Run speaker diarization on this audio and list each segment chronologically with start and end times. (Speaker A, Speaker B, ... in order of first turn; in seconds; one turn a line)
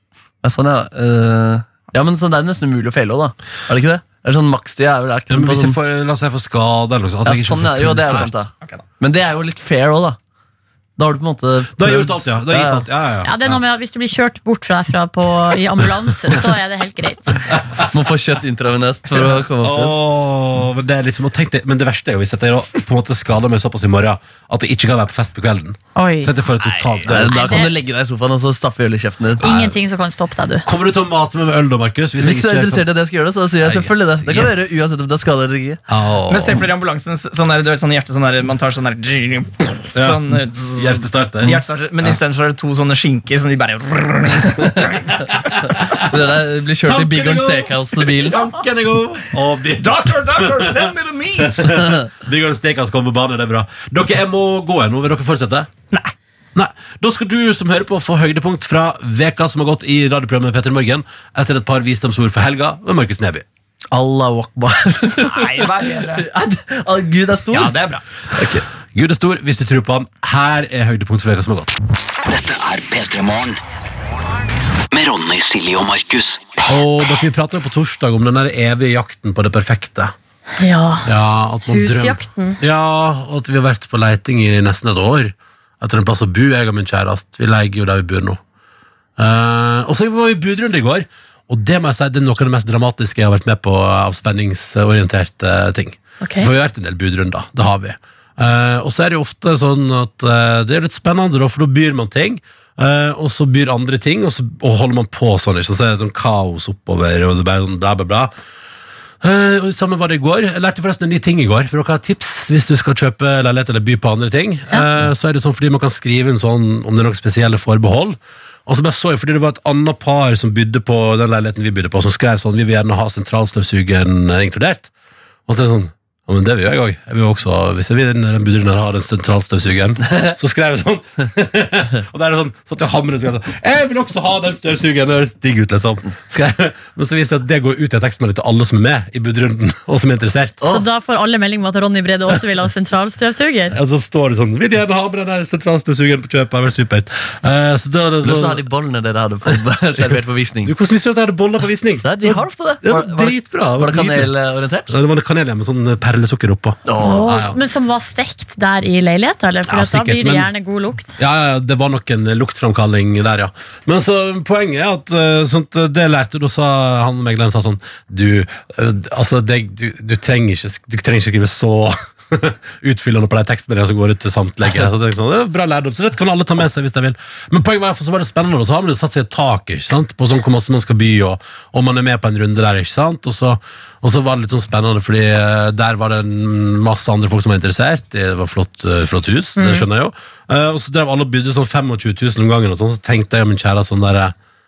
Speaker A: 0.4-5.8
Speaker B: 5.3-8.4
Speaker A: 7.2-10.2
Speaker A: 11.0-12.8
Speaker B: 11.8-13.6
Speaker C: 13.2-17.4
Speaker A: 17.8-19.9
Speaker B: 19.1-27.6
Speaker C: 25.9-26.4
Speaker A: 27.1-29.6
Speaker C: 27.1-27.7
Speaker C: 29.4-30.7
Speaker B: 29.4-29.7
Speaker B: 30.6-32.9
Speaker A: 32.2-35.8
Speaker B: 33.6-34.7
Speaker B: 35.9-36.6
Speaker D: 36.3-45.3
Speaker B: 39.9-42.2
Speaker B: 45.6-46.0
Speaker A: 46.1-48.4
Speaker B: 46.8-55.7
Speaker D: 49.8-51.9
Speaker B: 56.5-63.5
Speaker A: 63.9-67.8
Speaker D: 65.2-66.3
Speaker D: 67.5-68.0
Speaker A: 68.3-68.6
Speaker B: 68.9-71.7
Speaker E: 72.2-73.6
Speaker E: 74.9-76.5
Speaker B: 76.7-80.1
Speaker C: 80.6-81.1
Speaker B: 81.0-88.4
Speaker C: 81.7-82.6
Speaker B: 89.2-108.3
Speaker C: 96.2-96.5
Speaker B: 109.2-124.9
Speaker B: 125.5-140.6
Speaker C: 140.7-143.8
Speaker B: 143.7-148.6
Speaker A: 148.2-150.7
Speaker B: 150.0-154.3
Speaker A: 152.0-154.9
Speaker B: 154.9-157.6
Speaker A: 156.9-157.3
Speaker C: 157.0-161.1
Speaker B: 159.7-160.5
Speaker B: 161.2-194.3
Speaker C: 189.6-189.9